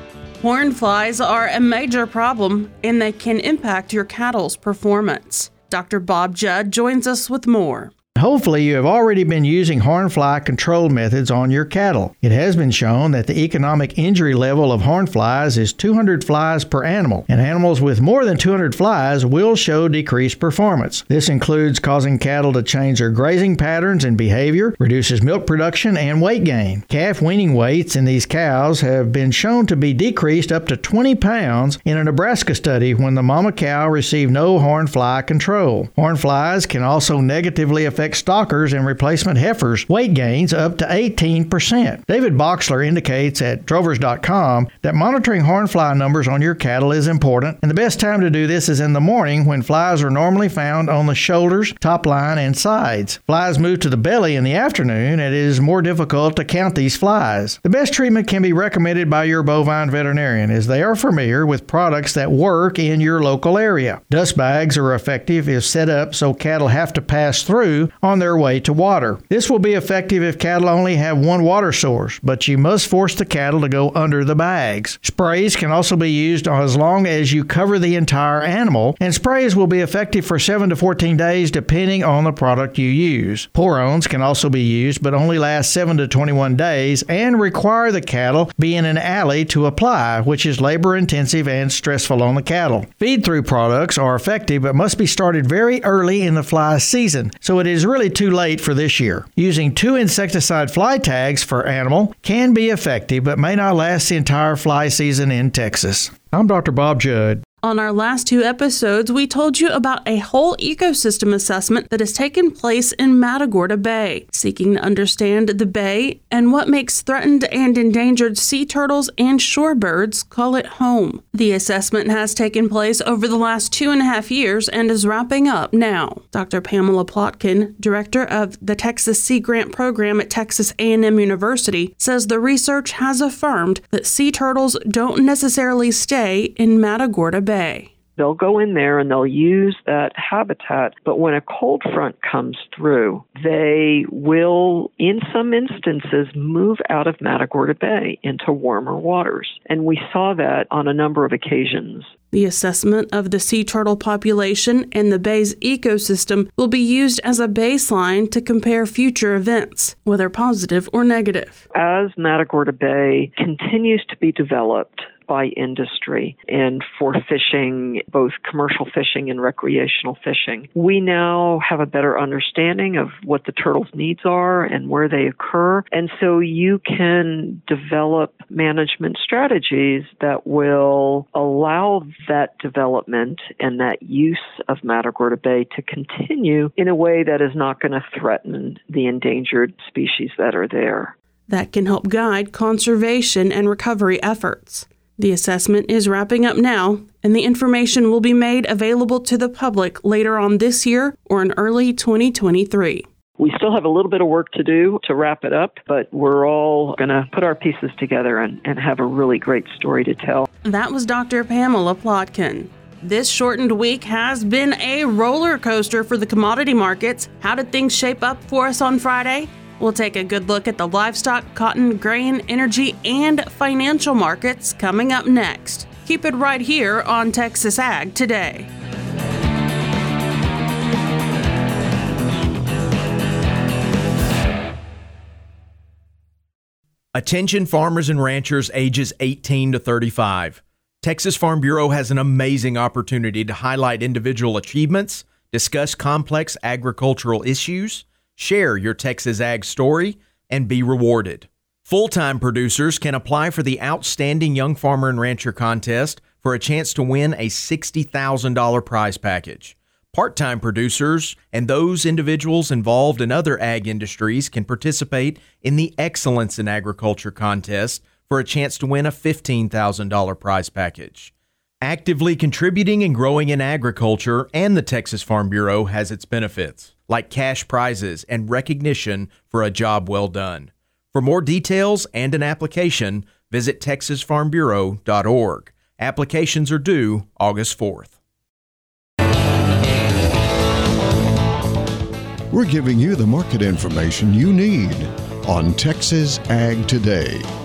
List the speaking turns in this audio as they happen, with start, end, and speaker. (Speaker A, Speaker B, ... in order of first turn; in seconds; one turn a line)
Speaker A: 0.4-7.9
Speaker B: 8.2-107.4
Speaker A: 107.6-137.9
Speaker C: 138.2-152.1
Speaker A: 152.3-161.6
Speaker C: 161.7-191.1
Speaker A: 191.5-203.0
Speaker C: 203.4-210.5
Speaker A: 210.6-228.7
Speaker D: 237.1-271.3
Speaker D: 271.8-288.1
Speaker E: 292.5-297.4